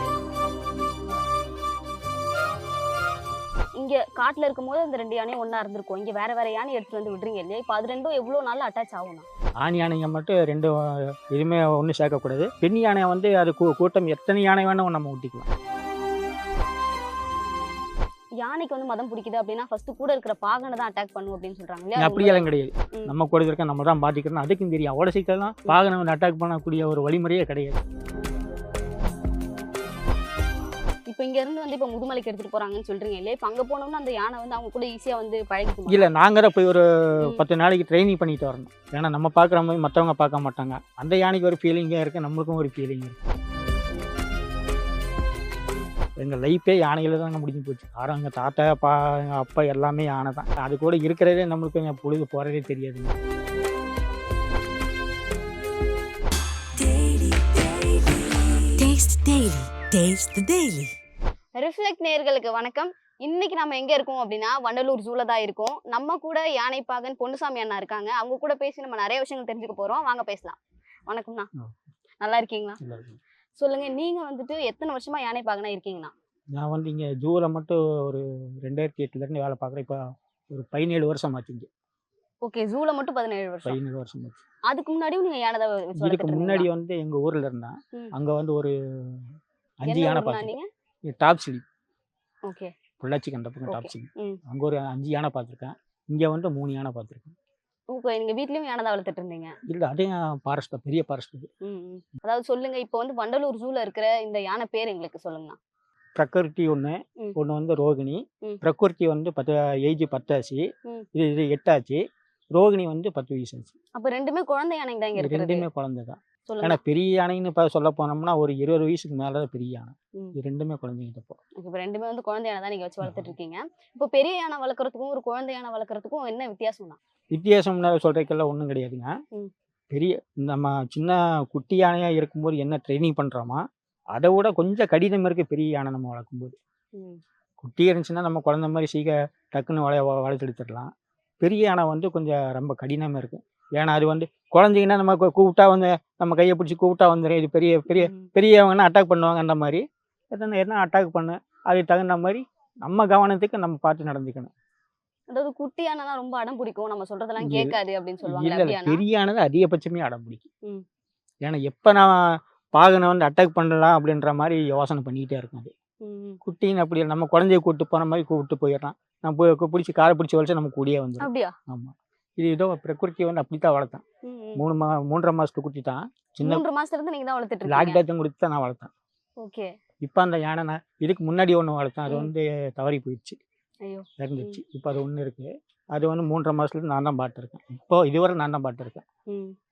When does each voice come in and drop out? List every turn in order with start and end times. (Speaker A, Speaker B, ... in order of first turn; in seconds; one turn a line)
Speaker A: 3.8-9.2
Speaker B: 9.6-15.5
Speaker A: 18.4-22.4
Speaker B: 22.0-27.8
Speaker A: 31.1-36.0
Speaker B: 35.9-43.2
Speaker B: 46.2-53.1
Speaker A: 56.8-58.2
Speaker C: 58.8-60.9
Speaker A: 61.6-70.6
Speaker A: 71.1-71.5
Speaker A: 72.2-72.8
Speaker B: 72.8-73.2
Speaker A: 73.6-76.1
Speaker B: 76.5-80.0
Speaker B: 80.5-81.7
Speaker A: 82.4-83.8
Speaker B: 83.6-84.4
Speaker A: 84.7-86.7
Speaker B: 86.0-89.3
Speaker B: 89.8-90.5
Speaker A: 89.9-90.7
Speaker B: 91.1-91.6
Speaker A: 92.5-92.7
Speaker B: 93.0-97.3
Speaker A: 93.7-94.4
Speaker A: 97.9-99.5
Speaker B: 99.7-101.5
Speaker A: 101.6-105.6
Speaker B: 106.2-112.0
Speaker B: 112.5-113.7
Speaker A: 113.9-115.7
Speaker B: 115.2-121.4
Speaker A: 116.5-116.8
Speaker A: 121.6-127.0
Speaker B: 123.0-123.3
Speaker B: 127.3-129.1
Speaker B: 129.9-133.6
Speaker B: 134.2-136.5
Speaker B: 137.6-140.9
Speaker B: 141.4-154.5
Speaker A: 147.9-148.3
Speaker A: 155.3-159.0
Speaker B: 157.4-157.7
Speaker B: 158.2-160.4
Speaker B: 161.4-165.7
Speaker A: 166.0-166.4
Speaker B: 166.4-174.0
Speaker A: 171.2-171.5
Speaker A: 174.2-174.7
Speaker B: 174.6-176.6
Speaker A: 176.4-178.0
Speaker B: 177.7-178.9
Speaker A: 179.4-179.7
Speaker B: 180.0-183.4
Speaker A: 183.8-184.6
Speaker B: 184.2-189.0
Speaker A: 189.3-189.5